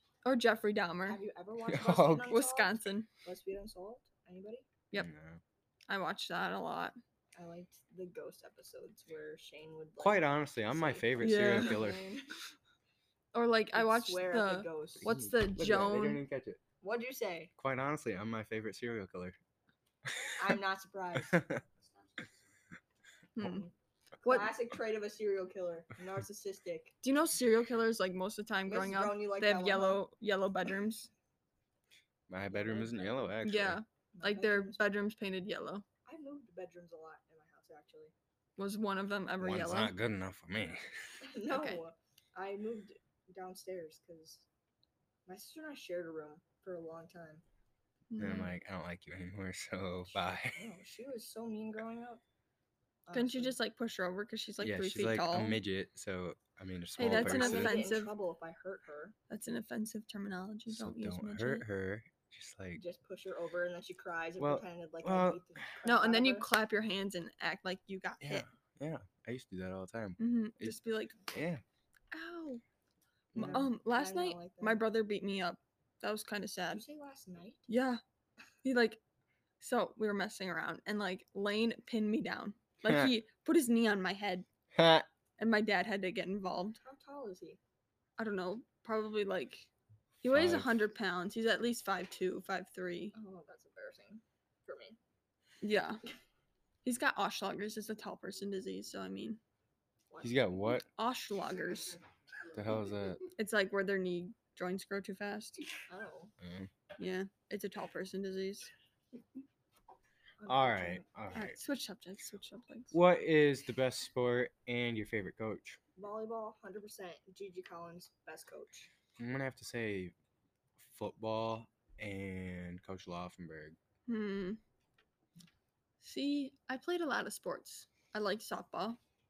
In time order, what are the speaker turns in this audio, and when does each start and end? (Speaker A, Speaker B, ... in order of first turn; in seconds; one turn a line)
Speaker A: 0.2-1.2
Speaker B: 1.1-4.7
Speaker C: 1.6-2.3
Speaker A: 2.2-3.1
Speaker C: 4.9-5.4
Speaker A: 5.9-7.0
Speaker B: 7.4-12.2
Speaker C: 10.0-12.1
Speaker A: 11.2-11.9
Speaker A: 13.3-16.2
Speaker B: 13.7-15.2
Speaker C: 15.0-16.6
Speaker B: 16.8-17.5
Speaker C: 17.6-19.4
Speaker C: 20.1-20.3
Speaker B: 20.4-21.4
Speaker C: 21.3-21.6
Speaker A: 23.4-23.7
Speaker B: 23.4-27.0
Speaker A: 24.3-24.5
Speaker A: 27.0-31.1
Speaker B: 28.7-30.0
Speaker C: 32.3-33.8
Speaker B: 32.5-33.4
Speaker A: 33.4-35.9
Speaker B: 34.1-35.0
Speaker B: 36.1-38.1
Speaker A: 38.6-40.0
Speaker C: 39.4-40.9
Speaker B: 41.2-44.5
Speaker A: 41.5-41.8
Speaker B: 45.3-47.4
Speaker A: 48.1-48.6
Speaker C: 48.2-50.6
Speaker B: 50.2-52.2
Speaker B: 53.1-53.6
Speaker A: 53.1-55.6
Speaker C: 54.6-57.9
Speaker A: 57.0-58.1
Speaker B: 57.0-59.2
Speaker A: 59.3-61.7
Speaker C: 60.7-62.8
Speaker B: 62.8-66.6
Speaker C: 64.4-65.7
Speaker A: 65.8-68.5
Speaker C: 68.2-71.6
Speaker A: 70.2-71.2
Speaker A: 72.1-72.6
Speaker C: 73.3-73.7
Speaker B: 73.3-75.0
Speaker A: 73.4-76.8
Speaker B: 76.7-77.7
Speaker A: 77.7-78.0
Speaker A: 78.6-79.0
Speaker A: 79.6-84.5
Speaker C: 82.8-83.1
Speaker C: 84.7-85.1
Speaker A: 85.4-86.8
Speaker B: 86.7-87.6
Speaker A: 88.2-89.7
Speaker A: 90.2-93.2
Speaker C: 90.2-90.7
Speaker B: 93.1-95.0
Speaker A: 95.6-96.0
Speaker A: 96.8-99.4
Speaker B: 100.1-100.5
Speaker C: 100.2-100.9
Speaker A: 100.8-102.0
Speaker C: 102.5-103.3
Speaker A: 103.3-105.6
Speaker B: 105.9-106.3
Speaker C: 106.4-106.7
Speaker A: 107.0-108.7
Speaker B: 110.4-111.1
Speaker C: 110.5-111.6
Speaker A: 111.3-113.0
Speaker C: 112.9-115.8
Speaker B: 116.0-118.9
Speaker C: 119.2-120.1
Speaker C: 120.8-123.8
Speaker A: 124.1-124.6
Speaker A: 126.0-129.0